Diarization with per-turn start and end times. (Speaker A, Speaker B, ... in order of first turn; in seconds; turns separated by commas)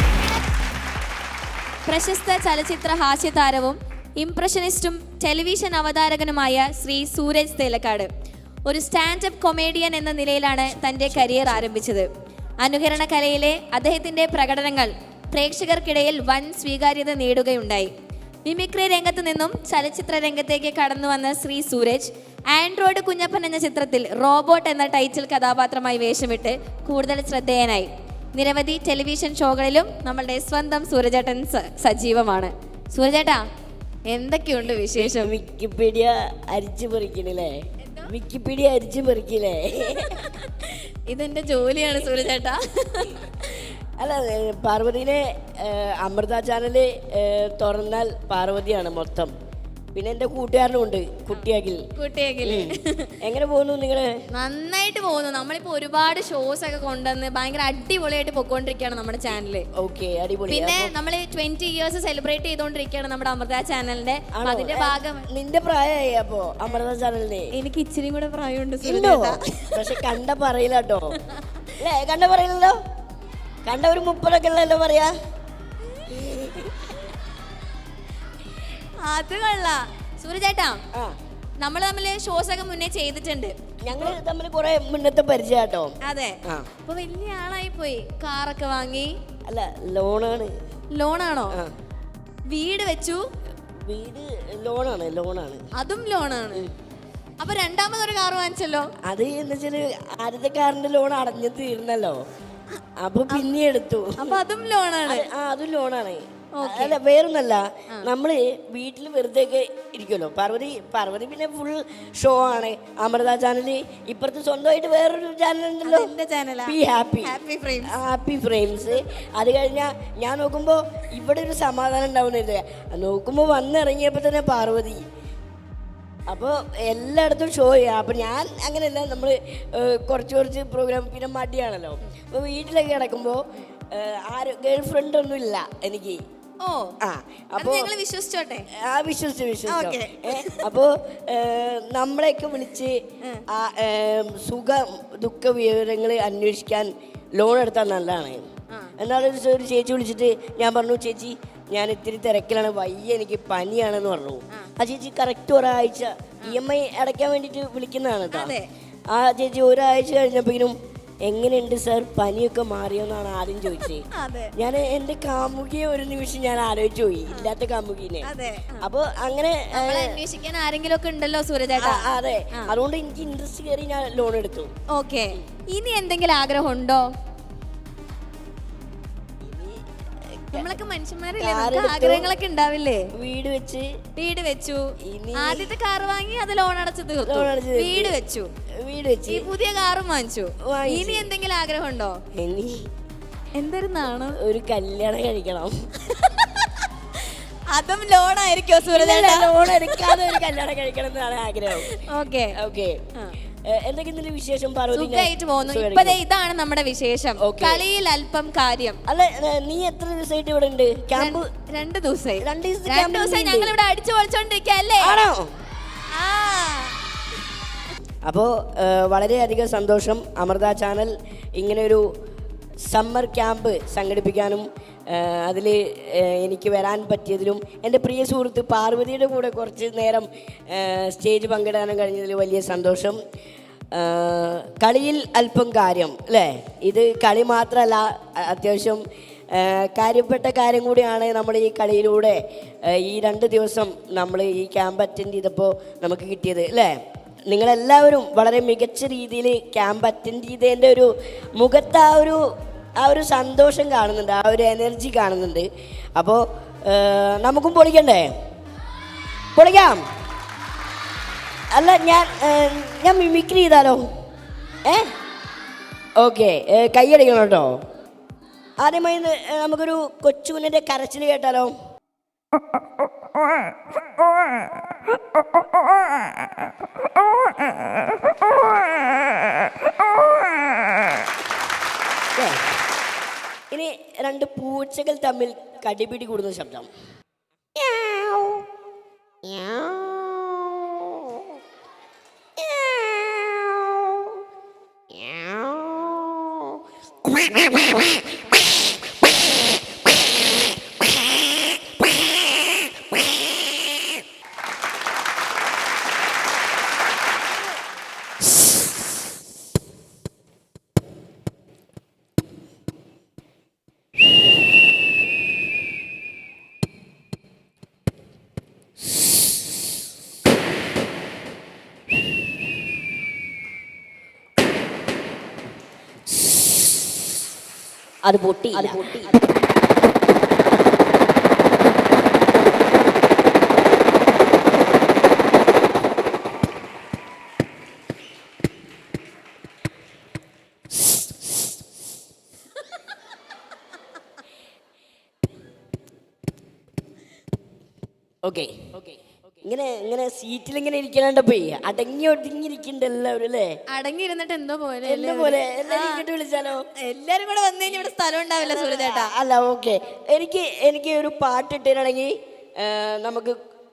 Speaker A: 1.9-8.1, Speaker A: 8.7-12.1, Speaker B: 10.9-11.7, Speaker A: 12.6-17.9, Speaker A: 18.4-33.4, Speaker A: 34.1-35.3, Speaker B: 35.0-40.3, Speaker A: 37.9-38.1, Speaker A: 40.0-43.7, Speaker B: 44.0-49.3, Speaker B: 49.9-51.8, Speaker A: 52.0-53.2, Speaker B: 52.4-54.1, Speaker A: 54.3-59.7, Speaker B: 59.8-60.9, Speaker A: 60.5-65.3, Speaker B: 64.3-67.5, Speaker A: 67.5-70.0, Speaker B: 68.8-71.2, Speaker A: 71.2-71.7, Speaker B: 71.8-72.8, Speaker B: 73.7-75.1, Speaker B: 76.1-77.0, Speaker A: 79.0-80.8, Speaker A: 81.6-84.2, Speaker B: 83.9-85.9, Speaker A: 86.0-89.2, Speaker B: 86.4-86.7, Speaker B: 89.5-90.5, Speaker A: 90.9-91.6, Speaker A: 92.5-93.3, Speaker B: 93.8-95.6, Speaker A: 95.8-96.6, Speaker A: 97.4-98.9, Speaker B: 99.0-102.2, Speaker B: 103.0-104.4, Speaker A: 104.2-105.3, Speaker B: 105.1-125.0, Speaker A: 106.6-107.0, Speaker A: 115.8-117.9, Speaker B: 126.3-136.2, Speaker A: 136.6-137.0, Speaker B: 137.0-137.9, Speaker A: 137.6-138.7, Speaker B: 138.7-148.5, Speaker A: 139.7-140.7, Speaker B: 149.0-158.6, Speaker A: 158.3-158.7, Speaker B: 159.1-164.1, Speaker A: 163.8-164.5, Speaker B: 164.6-168.3, Speaker A: 168.2-168.9, Speaker B: 168.8-170.2, Speaker A: 169.7-172.7, Speaker B: 171.8-174.7, Speaker A: 174.9-177.1, Speaker B: 179.4-180.7, Speaker A: 180.5-183.1, Speaker B: 181.4-182.3, Speaker B: 183.2-183.9, Speaker A: 184.2-188.5, Speaker B: 185.0-185.7, Speaker B: 187.2-188.2, Speaker B: 188.8-189.5, Speaker A: 189.3-192.2, Speaker B: 190.6-191.3, Speaker B: 192.3-192.8, Speaker A: 193.6-194.4, Speaker B: 194.3-195.7, Speaker A: 196.0-200.4, Speaker B: 198.9-202.0, Speaker A: 201.8-202.6, Speaker B: 202.6-203.0, Speaker B: 203.7-206.2, Speaker A: 204.9-209.0, Speaker B: 207.4-207.8, Speaker B: 209.1-211.5, Speaker A: 211.1-215.2, Speaker B: 212.4-213.8, Speaker B: 215.0-215.5, Speaker A: 216.1-217.0, Speaker B: 218.2-222.1, Speaker B: 222.9-233.2, Speaker B: 233.9-246.9, Speaker B: 247.5-252.4, Speaker B: 253.0-258.3, Speaker B: 259.6-260.0, Speaker B: 261.7-264.0, Speaker B: 264.9-265.1, Speaker B: 266.2-267.7, Speaker B: 268.8-271.7, Speaker B: 282.4-282.6, Speaker B: 283.7-286.9, Speaker B: 288.1-288.6, Speaker B: 289.6-290.1, Speaker B: 292.9-293.6, Speaker B: 328.2-329.3, Speaker B: 348.4-353.7, Speaker A: 353.9-356.2, Speaker B: 355.1-356.9, Speaker A: 357.0-359.3, Speaker B: 358.6-363.6